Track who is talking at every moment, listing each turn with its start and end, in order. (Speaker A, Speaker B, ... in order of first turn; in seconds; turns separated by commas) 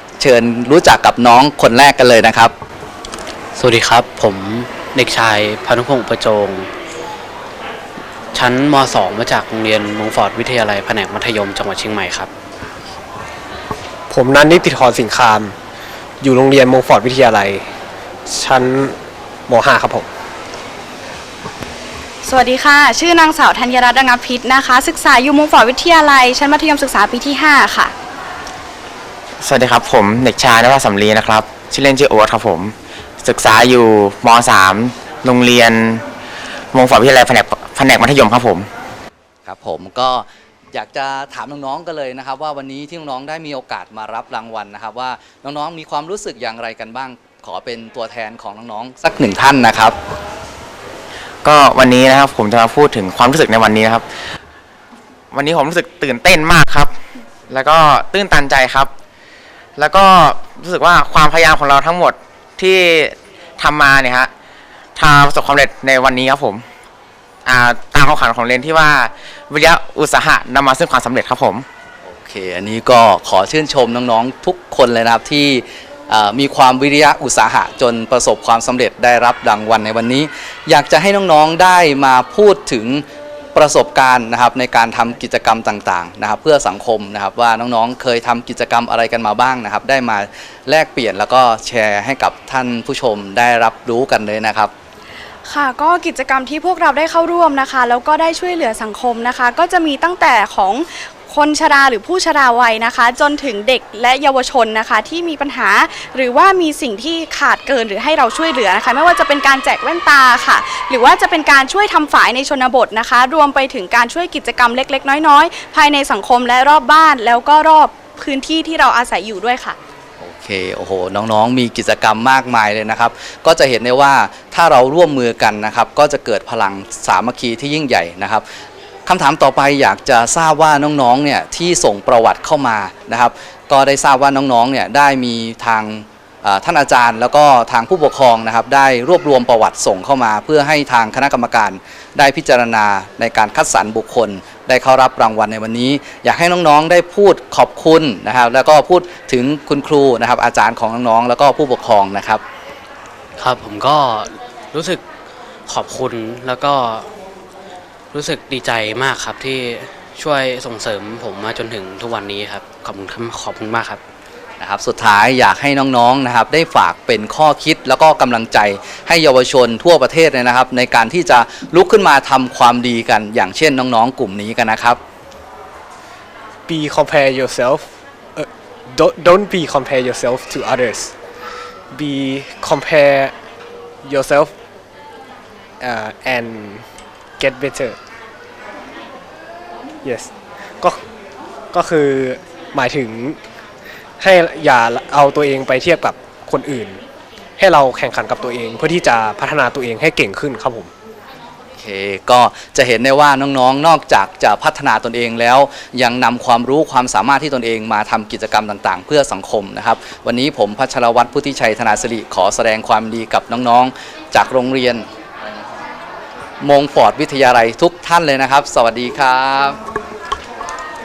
Speaker A: 0.2-2.5, Speaker B: 3.5-6.7, Speaker B: 8.3-12.3, Speaker C: 14.1-15.6, Speaker C: 16.2-17.7, Speaker C: 18.3-18.9, Speaker C: 19.5-20.1, Speaker D: 22.2-27.9, Speaker E: 29.4-36.0, Speaker E: 36.7-38.7, Speaker A: 39.4-50.0, Speaker E: 51.4-54.0, Speaker E: 55.3-56.9, Speaker E: 57.5-58.9, Speaker E: 59.8-64.3, Speaker E: 65.0-66.6, Speaker E: 67.4-71.7, Speaker A: 72.0-83.0, Speaker A: 83.5-94.7, Speaker D: 95.4-119.8, Speaker A: 120.2-128.4, Speaker A: 129.1-152.4, Speaker B: 153.4-155.0, Speaker B: 155.7-157.1, Speaker B: 158.1-164.0, Speaker A: 164.6-175.0, Speaker C: 176.7-177.8, Speaker C: 178.3-181.1, Speaker C: 181.9-183.3, Speaker C: 184.0-184.5, Speaker C: 185.8-186.8, Speaker C: 187.4-188.0, Speaker C: 190.0-191.0, Speaker C: 191.7-193.4, Speaker C: 194.2-197.0, Speaker C: 197.6-200.9, Speaker A: 201.8-215.1, Speaker A: 216.6-219.8